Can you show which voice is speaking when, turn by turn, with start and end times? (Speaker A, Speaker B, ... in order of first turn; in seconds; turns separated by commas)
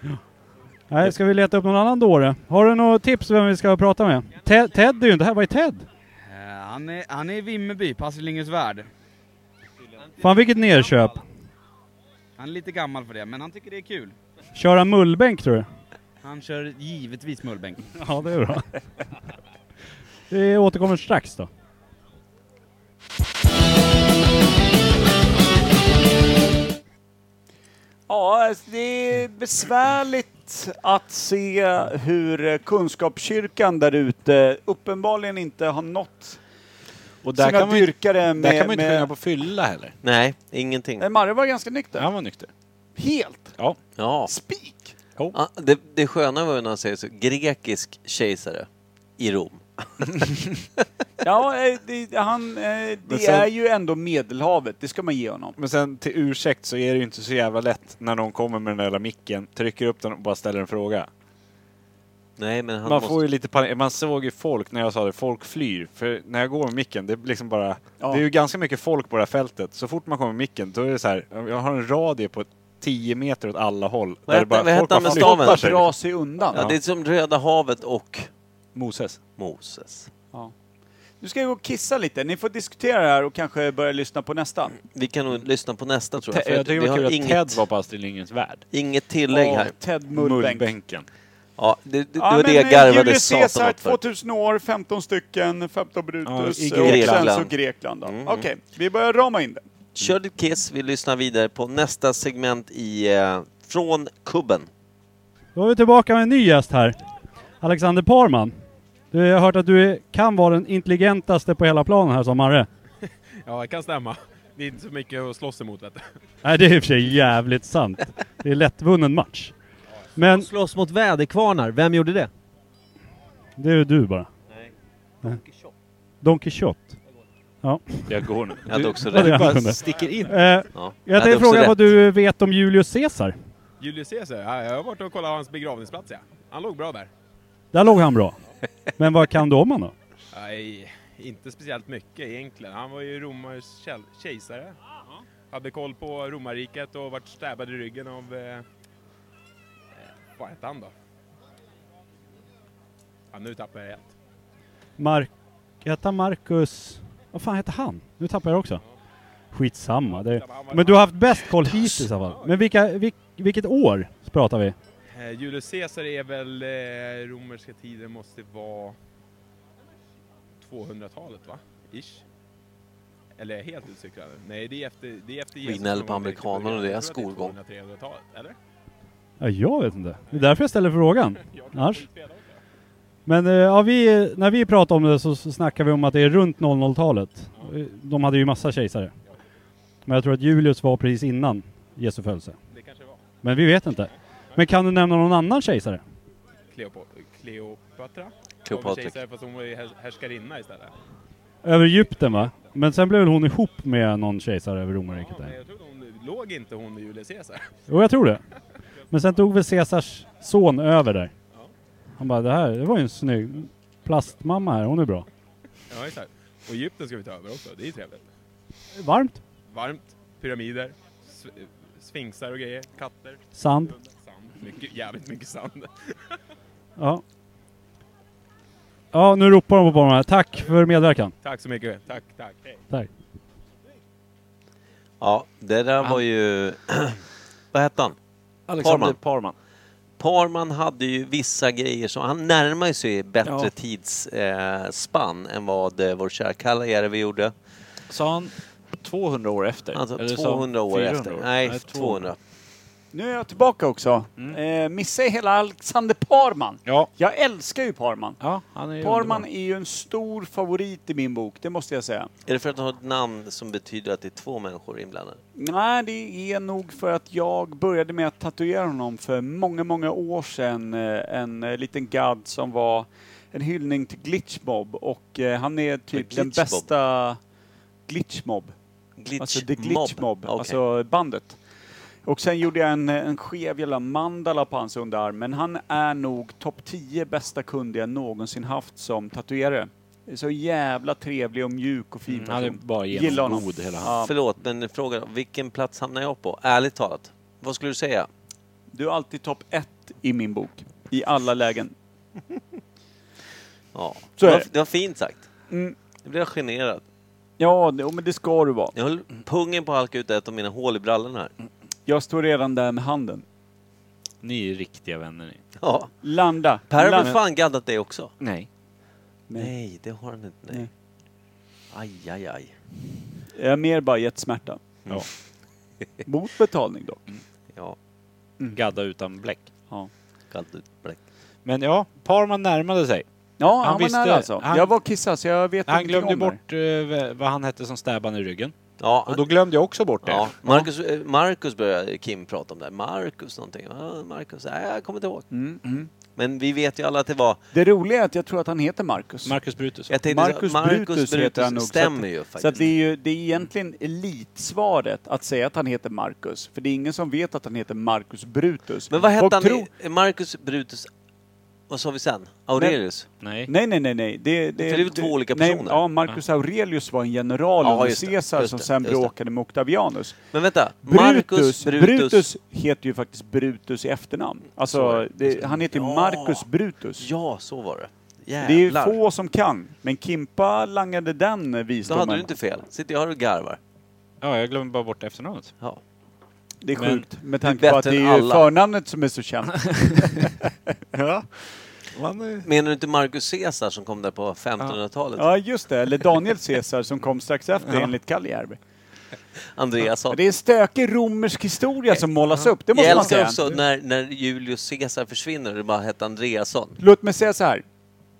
Speaker A: 0.9-5.8, Speaker B: 6.2-8.9, Speaker A: 10.2-11.2, Speaker B: 12.4-14.2, Speaker A: 14.5-15.7, Speaker B: 16.2-17.9, Speaker A: 17.9-18.7, Speaker A: 20.3-21.5, Speaker C: 28.1-36.4, Speaker D: 37.2-40.0, Speaker C: 37.4-39.1, Speaker E: 40.0-41.0, Speaker C: 41.0-42.1, Speaker D: 41.9-42.5, Speaker C: 43.0-43.5, Speaker E: 44.0-44.3, Speaker C: 44.3-44.9, Speaker E: 45.3-48.7, Speaker E: 49.2-50.2, Speaker C: 51.2-55.6, Speaker D: 53.1-53.5, Speaker D: 55.6-61.1, Speaker E: 62.4-63.2, Speaker D: 62.8-75.9, Speaker C: 68.0-68.2, Speaker E: 74.3-75.8, Speaker C: 75.0-76.7, Speaker E: 76.5-78.3, Speaker D: 78.7-79.2, Speaker E: 79.4-80.1, Speaker C: 81.2-84.8, Speaker E: 84.8-87.6, Speaker D: 86.3-88.6, Speaker E: 88.7-89.7, Speaker C: 89.3-90.7, Speaker D: 90.1-91.1, Speaker E: 91.6-94.0, Speaker C: 92.2-99.6, Speaker D: 96.2-97.3, Speaker E: 96.7-98.4, Speaker E: 100.0-104.7, Speaker A: 105.5-107.0, Speaker A: 107.6-108.5, Speaker A: 109.1-112.7, Speaker F: 113.4-116.1, Speaker A: 116.4-119.5, Speaker A: 120.2-120.5, Speaker G: 120.2-122.3, Speaker A: 123.6-124.3, Speaker A: 126.2-126.9, Speaker A: 127.6-128.2, Speaker D: 128.1-130.4, Speaker E: 128.7-129.7, Speaker A: 129.0-133.3, Speaker E: 130.7-131.8, Speaker F: 133.8-137.1, Speaker A: 137.7-138.4, Speaker A: 139.0-139.9, Speaker F: 140.3-144.8, Speaker F: 145.5-148.7, Speaker F: 150.0-150.9, Speaker F: 153.3-154.1, Speaker A: 155.0-155.3, Speaker A: 155.8-158.8, Speaker A: 159.5-164.8, Speaker F: 160.1-161.6, Speaker F: 162.2-162.6, Speaker F: 165.1-169.0, Speaker F: 170.6-172.2, Speaker F: 173.4-178.6, Speaker E: 175.6-177.6, Speaker A: 179.4-182.1, Speaker F: 180.3-180.6, Speaker F: 181.3-182.6, Speaker A: 183.2-189.1, Speaker A: 190.1-192.5, Speaker F: 192.7-193.2, Speaker A: 193.4-196.0, Speaker F: 196.7-200.9, Speaker E: 198.6-199.2, Speaker A: 201.6-205.5, Speaker F: 205.1-207.7, Speaker A: 207.9-208.4, Speaker A: 209.1-211.3, Speaker A: 212.2-215.2, Speaker F: 215.9-218.3, Speaker A: 218.9-219.4, Speaker F: 219.7-226.4, Speaker A: 223.5-223.9, Speaker A: 227.0-227.2, Speaker A: 229.1-231.3, Speaker F: 231.4-232.8, Speaker E: 235.2-237.2, Speaker E: 237.7-238.1, Speaker D: 238.7-239.5, Speaker E: 238.8-239.2, Speaker E: 240.2-247.5, Speaker D: 248.1-252.3, Speaker E: 249.9-252.4, Speaker C: 253.1-258.4, Speaker D: 258.4-259.5, Speaker C: 259.0-262.3, Speaker E: 262.4-265.4, Speaker C: 265.6-277.4, Speaker E: 276.1-276.9, Speaker C: 278.1-278.7, Speaker E: 279.2-280.8, Speaker C: 279.4-281.6, Speaker C: 282.2-294.3, Speaker D: 292.3-294.1, Speaker E: 294.2-298.3, Speaker C: 298.9-301.9, Speaker E: 303.9-305.5, Speaker C: 304.4-304.7, Speaker C: 305.7-305.9, Speaker E: 306.2-307.0, Speaker C: 307.6-308.9, Speaker E: 308.9-311.5, Speaker C: 312.1-313.4, Speaker D: 314.4-315.6, Speaker E: 315.8-316.1, Speaker C: 316.2-317.3, Speaker E: 316.9-318.3, Speaker D: 318.4-318.7, Speaker E: 319.6-320.9, Speaker E: 321.9-322.7, Speaker C: 323.5-324.8, Speaker C: 326.2-327.2, Speaker D: 328.7-329.7, Speaker E: 330.5-331.2, Speaker D: 331.6-333.2, Speaker C: 333.6-336.6, Speaker D: 333.8-334.9, Speaker D: 335.9-338.7, Speaker E: 339.0-339.5, Speaker D: 339.2-340.5, Speaker E: 340.2-345.5, Speaker C: 345.5-346.1, Speaker E: 346.4-347.6, Speaker C: 347.7-349.6, Speaker D: 349.4-350.1, Speaker E: 350.1-352.9, Speaker C: 350.2-359.9, Speaker E: 359.1-361.1, Speaker E: 361.9-363.2, Speaker C: 362.8-363.0, Speaker D: 363.4-363.7, Speaker C: 363.6-370.4, Speaker E: 364.8-366.0, Speaker E: 367.8-369.3, Speaker E: 370.5-372.4, Speaker C: 371.0-377.3, Speaker E: 374.9-376.6, Speaker E: 377.2-379.2, Speaker C: 378.6-382.5, Speaker E: 382.1-383.8, Speaker D: 384.4-385.7, Speaker C: 386.8-390.5, Speaker E: 387.6-388.6, Speaker D: 391.1-392.7, Speaker E: 392.6-395.5, Speaker C: 395.4-398.8, Speaker E: 399.7-400.4, Speaker C: 400.3-403.7, Speaker E: 402.9-407.0, Speaker D: 403.0-403.3, Speaker C: 407.0-407.8